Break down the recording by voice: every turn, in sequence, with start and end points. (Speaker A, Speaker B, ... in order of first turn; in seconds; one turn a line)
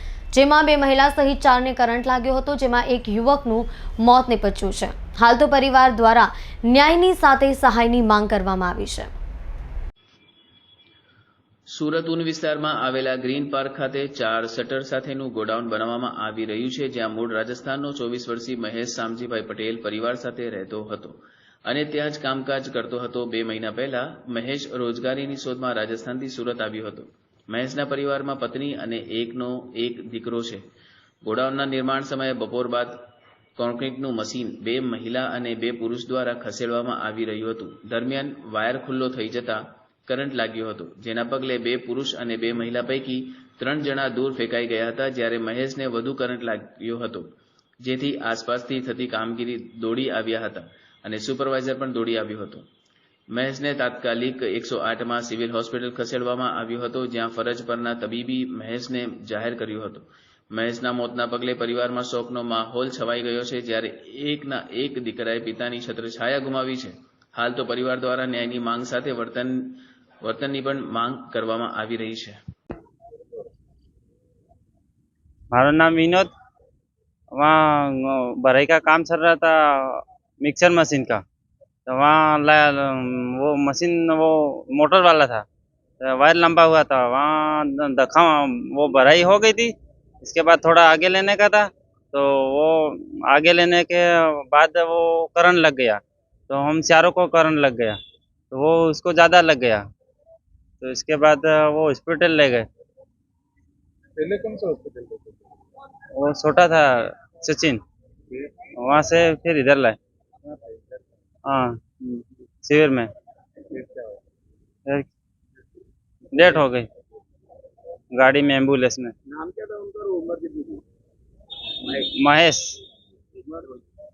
Speaker A: 0.3-9.1
Speaker B: 11.7-30.6
Speaker B: 31.2-47.2
Speaker B: 47.8-52.6
Speaker B: 53.3-72.4
Speaker C: 75.5-76.3
Speaker C: 77.3-81.2
Speaker C: 81.9-85.4
Speaker C: 86.0-98.0
Speaker C: 98.5-99.8
Speaker C: 100.8-102.7
Speaker D: 104.2-105.4
Speaker C: 106.2-107.8
Speaker C: 108.8-110.0
Speaker D: 110.5-111.0
Speaker C: 111.5-111.8
Speaker C: 112.6-113.1
Speaker D: 113.7-114.2
Speaker C: 116.3-116.9
Speaker C: 118.1-119.1
Speaker D: 119.3-120.8
Speaker C: 121.8-122.8